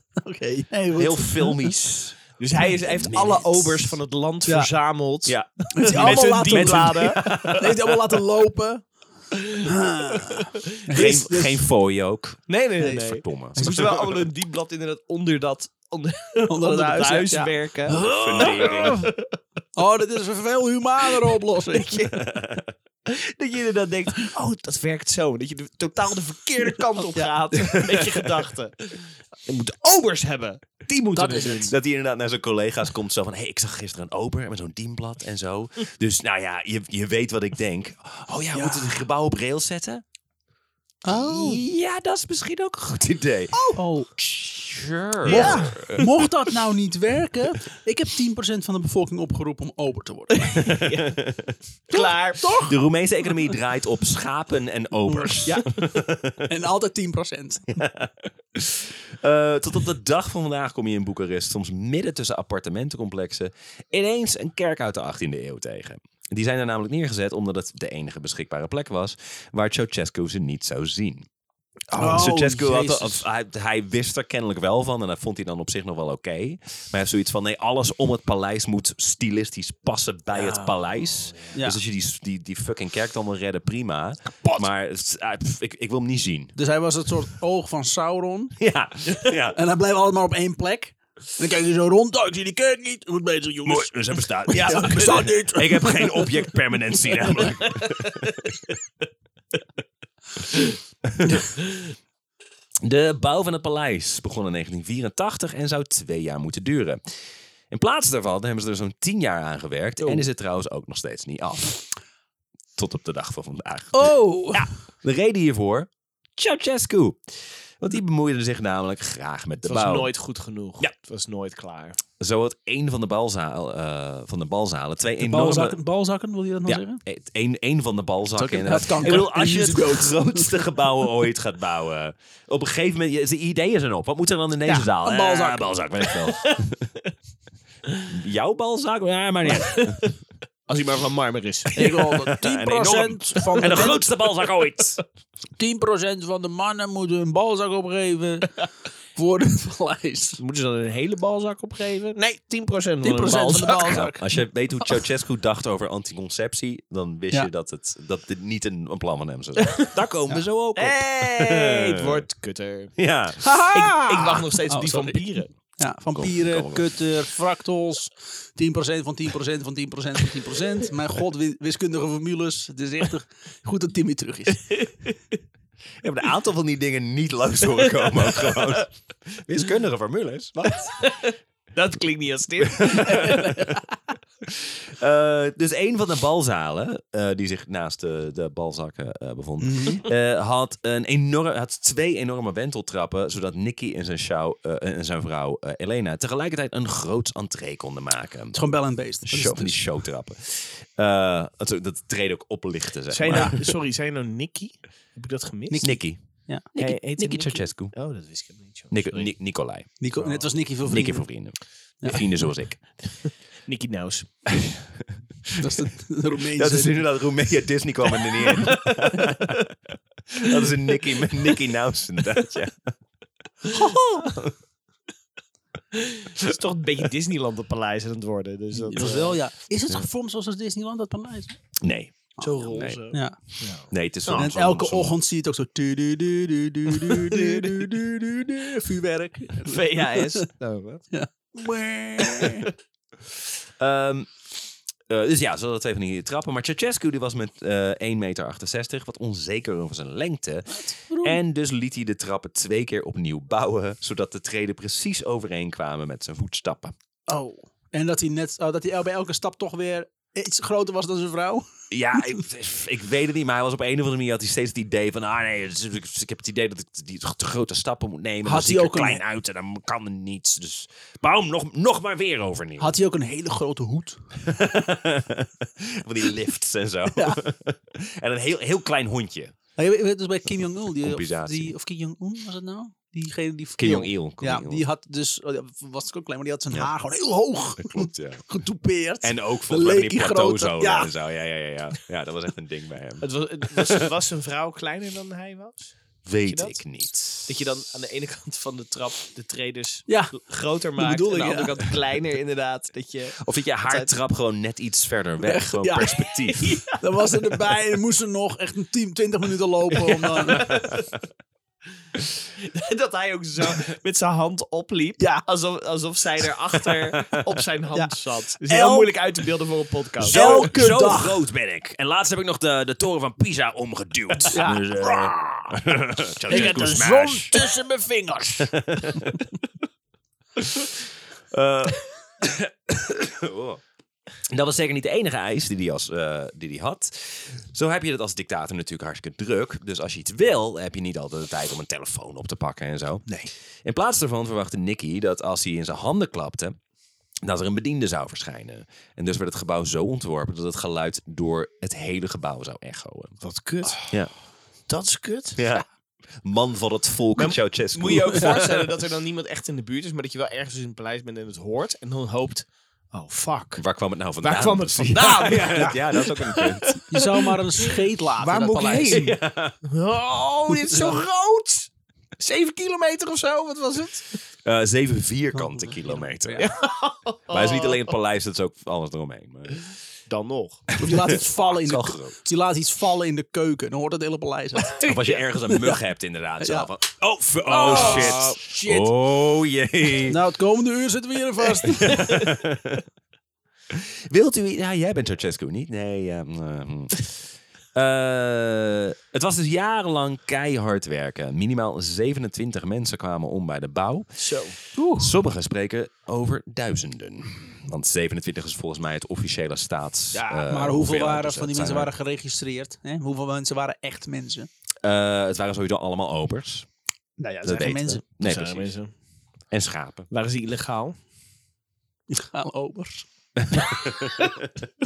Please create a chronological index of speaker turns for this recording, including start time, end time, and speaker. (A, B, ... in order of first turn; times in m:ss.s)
0:00.2-0:01.7 A
0:01.0-0:04.0 B
0:02.4-0:07.6 C
0:04.4-0:04.7 A
0:05.2-0:08.0 B
0:05.7-0:08.9 A
0:09.6-0:11.6 A
0:10.9-0:14.3 B
0:12.5-0:19.3 C
0:12.8-0:13.9 A
0:16.4-0:19.0 A
0:18.0-0:19.1 B
0:19.8-0:22.0 A
0:21.7-0:22.3 C
0:22.1-0:22.7 B
0:23.1-0:31.7 C
0:27.0-0:27.8 A
0:27.7-0:28.4 B
0:31.1-0:31.7 A
0:31.7-0:40.0 B
0:38.5-0:39.0 A
0:41.0-0:41.6 A
0:41.1-0:46.1 B
0:43.5-0:44.1 A
0:45.2-0:46.0 C
0:45.2-0:50.6 A
0:50.3-0:51.2 C
0:50.6-0:51.6 B
0:51.9-0:52.5 C
0:51.9-0:52.7 A
0:52.6-0:56.5 B
0:55.1-0:55.7 A
0:56.5-0:57.8 A
0:57.7-1:11.3 B
1:11.9-1:13.2 A
1:11.9-1:26.5 B
1:20.3-1:21.6 C
1:21.5-1:21.8 A
1:26.6-1:28.5 A
1:28.6-1:29.6 B
1:29.5-1:36.5 A
1:33.6-1:38.5 B
1:34.7-1:35.2 C
1:41.0-1:41.5 B
1:42.8-1:47.0 B
1:47.7-1:51.9 B
1:52.8-2:00.1 B
1:53.9-1:54.6 A
1:59.6-2:02.0 C
2:02.2-2:05.8 B
2:05.2-2:07.0 A
2:06.6-2:16.9 B
2:08.4-2:10.6 A
2:14.6-2:15.9 A
2:16.4-2:16.6 C
2:18.1-2:20.0 B
2:19.5-2:20.1 C
2:20.7-2:21.8 C
2:21.7-2:24.0 A
2:21.9-2:25.0 B
2:23.6-2:25.0 C
2:25.6-2:28.5 A
2:29.1-2:30.4 A
2:30.4-2:34.0 C
2:33.0-2:34.3 A
2:33.8-2:42.2 B
2:39.6-2:39.9 C
2:40.8-2:43.0 C
2:43.0-2:43.4 B
2:43.4-2:54.8 A
2:43.7-2:45.5 C
2:46.1-2:47.0 B
2:56.0-3:01.0 B
2:57.8-2:58.8 C
3:00.7-3:03.6 C
3:02.6-3:03.8 B
3:03.1-3:03.7 A
3:04.4-3:18.6 B
3:09.6-3:10.0 A
3:18.5-3:19.8 A
3:19.2-3:23.7 B
3:23.1-3:26.0 C
3:25.7-3:26.6 A
3:25.8-3:28.0 B
3:26.8-3:29.3 C
3:28.9-3:32.8 B
3:30.0-3:31.3 A
3:33.0-3:34.3 C
3:34.5-3:35.0 B
3:35.6-3:37.1 A
3:36.6-3:39.7 B
3:38.4-3:39.5 C
3:40.3-3:42.9 B
3:43.7-3:44.0 A
3:43.7-3:44.4 C
3:43.8-3:44.5 B
3:45.9-3:49.4 C
3:48.9-3:51.6 A
3:51.8-3:53.0 B
3:52.4-3:54.5 C
3:53.9-3:55.1 B
3:54.4-4:00.5 A
3:57.2-3:57.6 C
3:59.6-4:01.0 C
4:01.1-4:02.7 A
4:03.8-4:04.3 B
4:05.1-4:16.9 B
4:10.7-4:11.4 A
4:17.3-4:21.6 A
4:21.9-4:32.9 B
4:28.4-4:29.2 A
4:32.8-4:34.2 A
4:34.4-4:39.5 B
4:37.1-4:37.4 A
4:39.8-4:51.1 A
4:41.0-4:41.7 B
4:43.8-4:44.8 B
4:47.8-4:48.4 B
4:49.2-4:54.1 B
4:53.2-4:56.8 C
4:56.2-4:57.5 B
4:57.3-5:04.1 C
5:00.1-5:00.4 A
5:01.0-5:01.8 A
5:03.4-5:06.8 B
5:05.4-5:10.8 A
5:06.5-5:07.6 C
5:10.1-5:11.1 C
5:10.7-5:10.9 B
5:12.6-5:20.7 C
5:15.2-5:15.4 A
5:16.9-5:17.3 B
5:18.7-5:19.1 B
5:20.2-5:27.6 B
5:20.2-5:21.4 A
5:24.5-5:25.8 A
5:26.5-5:29.3 A
5:26.5-5:26.8 C
5:28.6-5:29.4 B
5:30.6-5:30.9 B
5:31.5-5:33.8 B
5:34.5-5:43.3 B
5:43.8-5:46.8 B
5:47.4-5:53.4 B
5:53.4-5:54.0 C
5:54.9-5:55.6 C
5:55.5-5:55.8 B
5:56.4-5:58.9 B
5:57.4-6:03.8 C
6:03.8-6:07.0 B
6:04.4-6:08.0 C
6:07.1-6:09.3 A
6:08.4-6:09.8 B
6:08.7-6:14.4 C
6:10.9-6:11.2 A
6:14.6-6:16.7 B
6:15.5-6:16.7 A
6:16.6-6:18.1 C
6:17.5-6:19.8 B
6:20.3-6:20.9 C
6:21.0-6:26.0 A
6:21.0-6:22.4 B
6:25.0-6:30.4 B
6:26.6-6:26.9 A
6:27.6-6:29.1 A
6:27.8-6:28.6 C
6:30.3-6:32.4 A
6:31.8-6:33.0 B
6:33.9-6:37.4 B
6:37.9-6:44.4 B
6:44.4-6:44.8 C
6:44.9-6:45.3 A
6:45.2-6:52.1 B
6:50.3-6:54.7 A
6:55.0-6:56.9 B
6:57.4-6:58.2 A
6:57.6-6:58.9 B
6:58.4-6:59.1 C
6:59.7-7:00.3 B
7:00.3-7:01.2 C
7:02.3-7:03.2 A
7:03.6-7:04.7 B